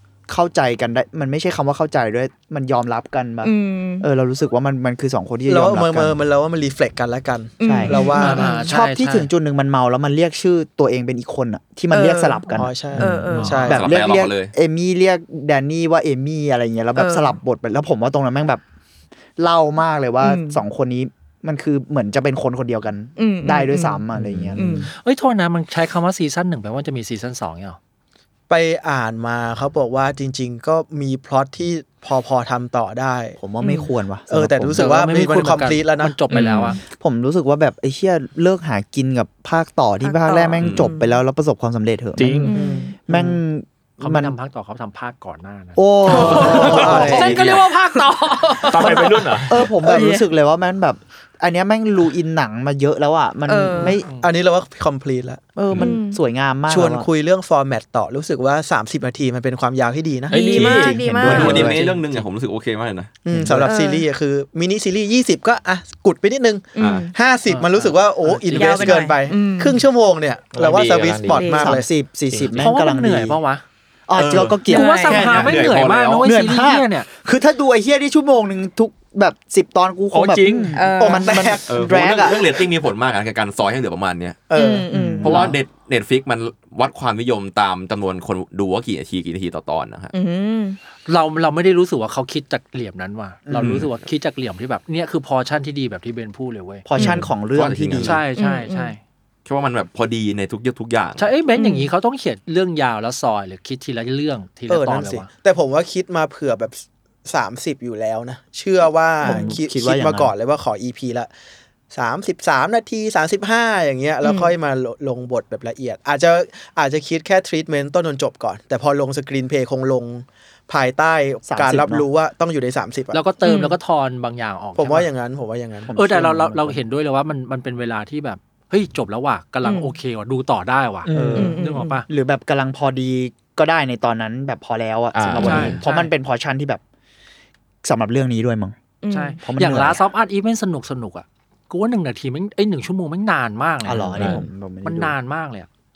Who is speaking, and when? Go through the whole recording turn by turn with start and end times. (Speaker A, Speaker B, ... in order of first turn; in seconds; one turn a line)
Speaker A: 0.3-6.2
Speaker B: 3.4-4.1
Speaker C: 5.5-8.5
Speaker B: 7.6-8.6
Speaker A: 7.6-18.6
Speaker D: 8.2-9.3
Speaker B: 11.9-13.7
Speaker C: 12.5-13.8
Speaker D: 13.4-13.7
Speaker E: 13.7-14.5
Speaker B: 17.0-17.4
Speaker A: 19.4-24.9
Speaker B: 20.2-20.6
Speaker B: 23.2-24.0
Speaker B: 24.6-24.9
Speaker D: 24.9-27.8
Speaker C: 28.5-33.4
Speaker A: 33.4-34.9
Speaker B: 33.6-33.9
Speaker C: 34.3-36.2
Speaker D: 34.8-36.8
Speaker B: 36.3-36.8
Speaker A: 36.9-44.4
Speaker B: 40.0-41.2
Speaker E: 40.6-40.9
Speaker F: 42.2-42.5
Speaker B: 42.5-43.0
Speaker C: 42.5-42.9
Speaker D: 44.0-49.2
Speaker A: 45.8-47.4
Speaker B: 46.4-46.8
Speaker E: 46.4-47.6
Speaker F: 46.5-47.1
Speaker C: 46.8-47.4
Speaker F: 48.7-49.6
Speaker B: 48.8-49.3
Speaker A: 49.5-54.0
Speaker B: 49.8-50.3
Speaker B: 53.5-54.0
Speaker D: 54.0-54.3
Speaker C: 54.2-55.4
Speaker A: 55.6-57.1
Speaker B: 55.8-56.2
Speaker C: 56.7-60.4
Speaker F: 60.3-61.0
Speaker B: 60.3-61.7
Speaker A: 60.5-61.8
Speaker E: 61.2-63.1
Speaker D: 61.4-62.2
Speaker C: 63.2-71.9
Speaker A: 63.3-63.7
Speaker B: 63.6-64.1
Speaker B: 66.8-67.2
Speaker E: 66.8-67.1
Speaker D: 67.5-69.0
Speaker B: 68.5-69.8
Speaker F: 70.5-71.5
Speaker B: 71.3-71.8
Speaker A: 71.5-73.4
Speaker F: 72.3-72.7
Speaker D: 72.6-73.6
Speaker A: 74.1-75.6
Speaker E: 74.2-76.3
Speaker B: 74.6-75.4
Speaker D: 74.7-77.1
Speaker A: 76.2-82.4
Speaker F: 80.1-80.8
Speaker B: 80.7-81.5
Speaker C: 81.0-82.4
Speaker E: 81.7-84.4
Speaker C: 84.5-84.9
Speaker B: 84.5-85.5
Speaker A: 84.9-85.5
Speaker E: 85.2-90.1
Speaker B: 90.1-90.8
Speaker D: 91.1-96.9
Speaker A: 93.5-93.9
Speaker E: 93.6-93.9
Speaker A: 96.9-98.2
Speaker E: 97.5-98.2
Speaker D: 98.0-99.0
Speaker B: 98.4-99.0
Speaker E: 99.5-101.3
Speaker D: 101.2-105.3
Speaker B: 101.6-101.9
Speaker C: 104.7-111.3
Speaker B: 109.2-109.5
Speaker A: 109.2-110.3
Speaker C: 111.9-123.2
Speaker B: 114.2-114.5
Speaker A: 121.5-122.1
Speaker D: 123.1-125.1
Speaker B: 123.4-123.8
Speaker C: 124.8-125.9
Speaker A: 125.8-126.8
Speaker D: 125.9-132.1
Speaker B: 129.6-129.9
Speaker F: 131.1-131.6
Speaker A: 131.1-136.8
Speaker B: 131.3-132.0
Speaker F: 135.1-135.8
Speaker D: 135.4-136.1
Speaker A: 137.8-138.8
Speaker B: 139.0-139.4
Speaker D: 139.1-145.7
Speaker A: 139.4-140.0
Speaker A: 143.8-145.2
Speaker F: 144.2-144.4